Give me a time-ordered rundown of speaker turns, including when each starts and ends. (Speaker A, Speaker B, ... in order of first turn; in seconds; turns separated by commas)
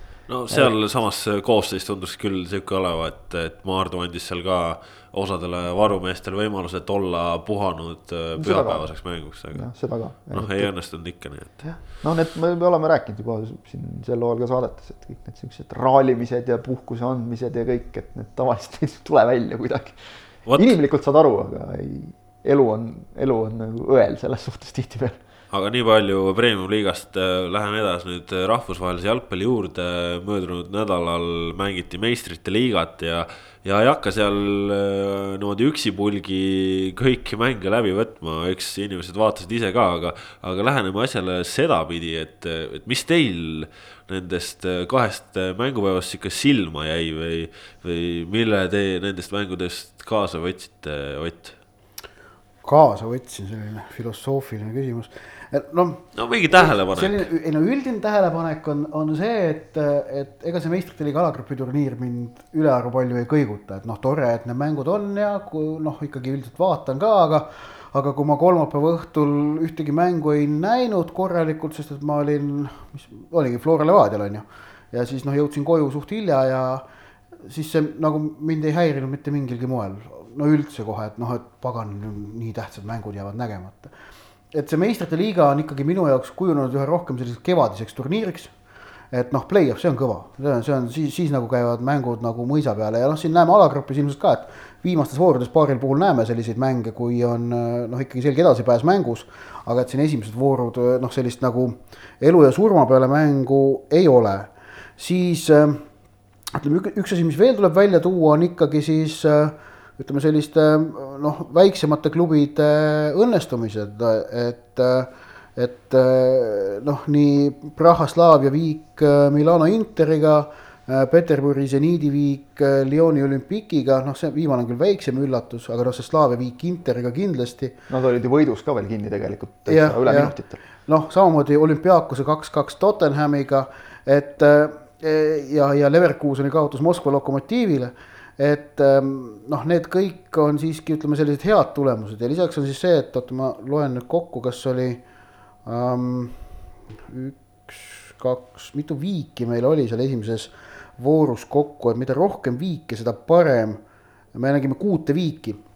Speaker A: 0.3-9.7, Speaker B: 8.4-8.9, Speaker B: 9.5-10.7, Speaker A: 10.3-11.7, Speaker B: 12.0-20.0, Speaker A: 20.5-20.7, Speaker B: 20.6-25.2, Speaker A: 25.5-51.5, Speaker C: 52.6-76.8, Speaker A: 56.1-57.2, Speaker C: 77.5-83.9, Speaker C: 84.5-88.5, Speaker C: 89.1-105.8, Speaker C: 106.5-127.7, Speaker B: 127.9-130.6, Speaker C: 129.7-130.3, Speaker C: 130.8-145.0, Speaker C: 145.7-146.4, Speaker C: 147.1-153.8, Speaker C: 154.3-155.6